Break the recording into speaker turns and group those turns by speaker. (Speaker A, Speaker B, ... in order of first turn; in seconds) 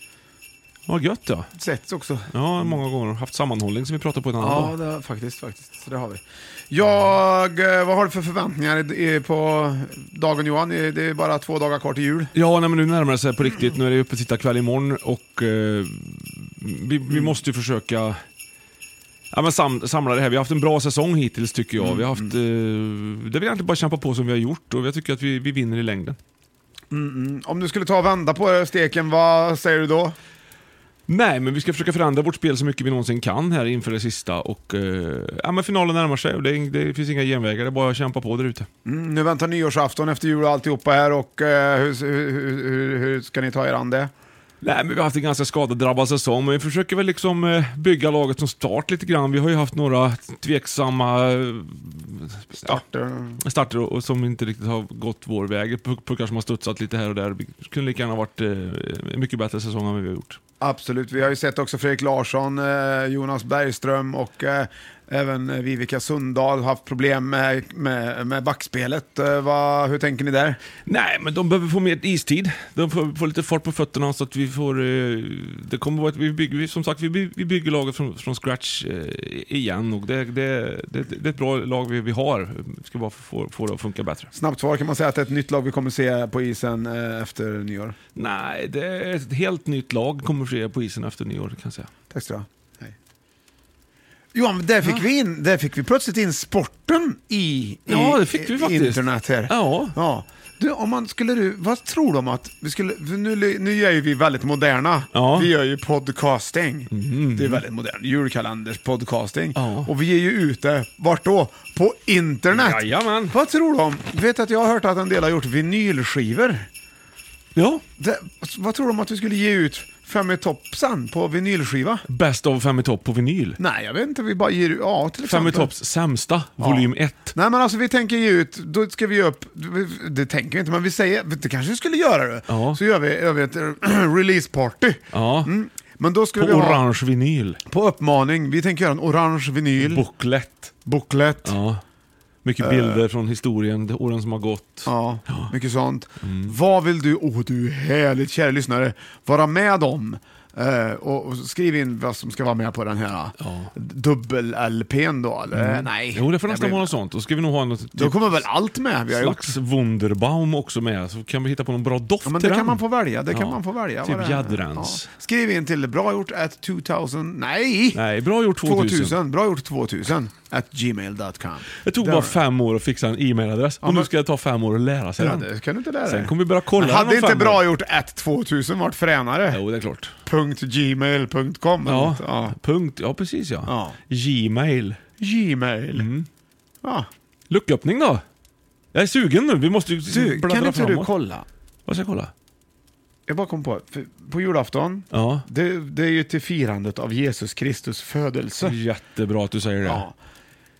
Speaker A: 0.9-1.5, 2.3-4.8, 12.3-18.2, 19.3-26.2, 31.1-38.7, 44.6-52.8, 53.4-60.4, 70.8-84.3, 88.2-91.9, 97.9-100.0, 105.1-105.5, 106.9-107.6, 109.6-109.9, 112.5-113.4, 117.5-117.8, 122.1-123.6, 125.2-127.3, 132.5-132.8, 135.1-135.5, 136.3-137.6, 139.8-140.7, 141.4-141.8, 142.4-145.5, 146.2-146.6, 153.4-153.7, 155.5-158.5, 159.1-165.1, 167.9-169.2, 171.8-175.5, 176.1-177.7, 179.5-180.1, 181.8-185.0, 185.9-186.3, 187.5-188.2, 188.9-191.1, 191.9-192.3, 195.1-195.4, 198.6-200.1
Speaker B: 1.6-2.8, 4.4-12.3, 21.8-22.3, 26.9-30.2, 38.8-44.1, 52.6-53.4, 60.6-70.6, 84.3-88.0, 92.1-92.9, 94.3-116.7, 118.0-122.0, 123.6-125.7, 126.6-136.8, 137.7-140.1, 140.8-141.6, 142.6-143.0, 144.8-156.9, 157.9-159.5, 162.2-168.0, 168.6-172.4, 173.8-174.1, 175.2-179.6, 180.2-182.6, 183.6-184.0, 185.2-186.1, 186.8-187.1, 190.1-191.4, 193.3-198.8, 199.8-200.1